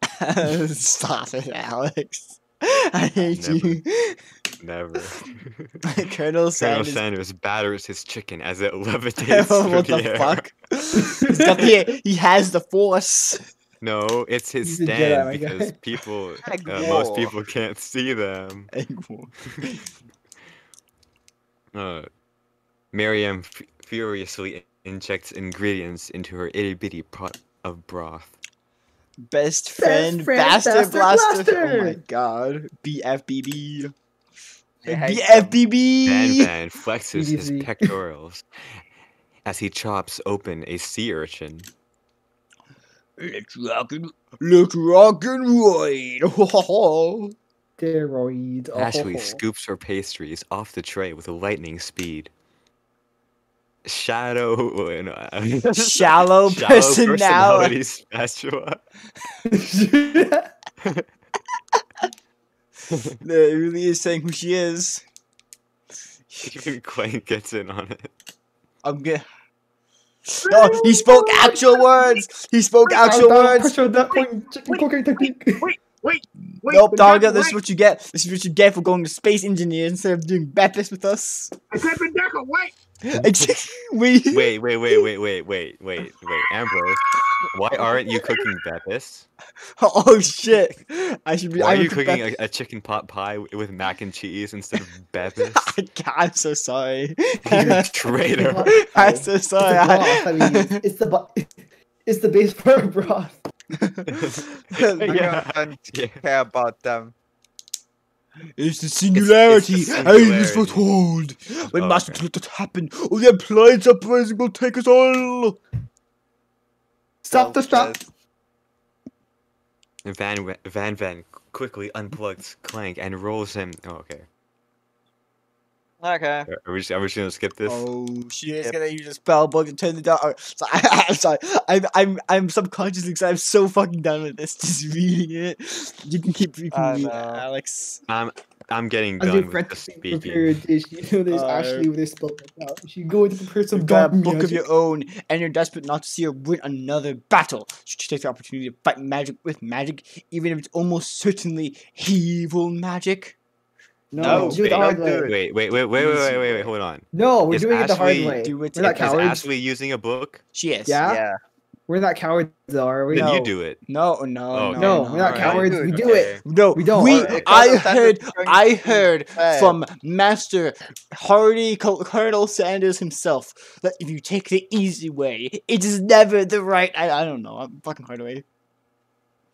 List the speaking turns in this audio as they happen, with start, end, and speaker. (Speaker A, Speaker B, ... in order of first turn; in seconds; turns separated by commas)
Speaker A: 0.1-4.2, Speaker B: 3.3-3.8, Speaker B: 4.6-5.8, Speaker A: 5.8-7.0, Speaker B: 6.6-10.5, Speaker A: 9.2-13.4, Speaker C: 11.0-11.4, Speaker B: 13.8-18.7, Speaker C: 14.6-15.7, Speaker D: 16.4-17.4, Speaker A: 18.7-19.9, Speaker B: 21.7-22.1, Speaker B: 22.9-28.3, Speaker A: 29.2-33.9, Speaker C: 29.8-32.0, Speaker D: 34.8-35.6, Speaker A: 34.8-36.5, Speaker B: 36.0-38.4, Speaker C: 37.1-37.7, Speaker B: 39.4-41.7, Speaker A: 43.2-47.3, Speaker C: 47.8-49.4, Speaker B: 48.7-52.3, Speaker B: 53.8-58.8, Speaker A: 55.8-57.8, Speaker C: 59.5-60.5, Speaker B: 60.8-61.1, Speaker A: 63.1-65.0, Speaker A: 66.3-66.7, Speaker B: 66.4-68.1, Speaker A: 68.8-69.2, Speaker A: 70.3-73.7, Speaker E: 70.5-72.2, Speaker E: 72.8-73.1, Speaker C: 73.0-75.7, Speaker E: 74.1-77.6, Speaker A: 76.6-81.6, Speaker E: 81.7-82.7, Speaker A: 83.1-84.5, Speaker B: 84.3-89.3, Speaker E: 88.0-88.3, Speaker A: 89.8-92.3, Speaker B: 91.5-95.7, Speaker A: 95.5-97.9, Speaker B: 97.4-98.7, Speaker C: 98.3-101.5, Speaker A: 98.7-100.8, Speaker C: 102.0-103.4, Speaker A: 103.7-104.3, Speaker B: 104.1-106.2, Speaker D: 104.7-107.1, Speaker A: 108.6-115.6, Speaker B: 109.1-110.9, Speaker B: 111.7-112.2, Speaker C: 117.2-118.0, Speaker D: 117.3-118.0, Speaker B: 120.0-124.2, Speaker D: 126.0-126.5, Speaker B: 126.5-127.9, Speaker A: 127.6-138.0, Speaker D: 136.7-137.4, Speaker B: 138.1-140.6, Speaker C: 139.2-144.6, Speaker A: 141.3-141.9, Speaker A: 143.7-153.4, Speaker C: 154.1-155.3, Speaker A: 154.2-154.6, Speaker D: 154.2-155.4, Speaker B: 154.4-160.4, Speaker D: 155.9-156.7, Speaker C: 157.1-159.4, Speaker A: 158.3-159.3, Speaker A: 160.5-161.0, Speaker C: 160.8-161.2, Speaker D: 161.0-161.4, Speaker C: 161.9-163.3, Speaker B: 163.1-163.8, Speaker A: 163.1-165.7, Speaker B: 164.5-166.4, Speaker C: 164.8-167.5, Speaker D: 165.2-166.4, Speaker A: 166.4-178.4, Speaker D: 167.0-169.8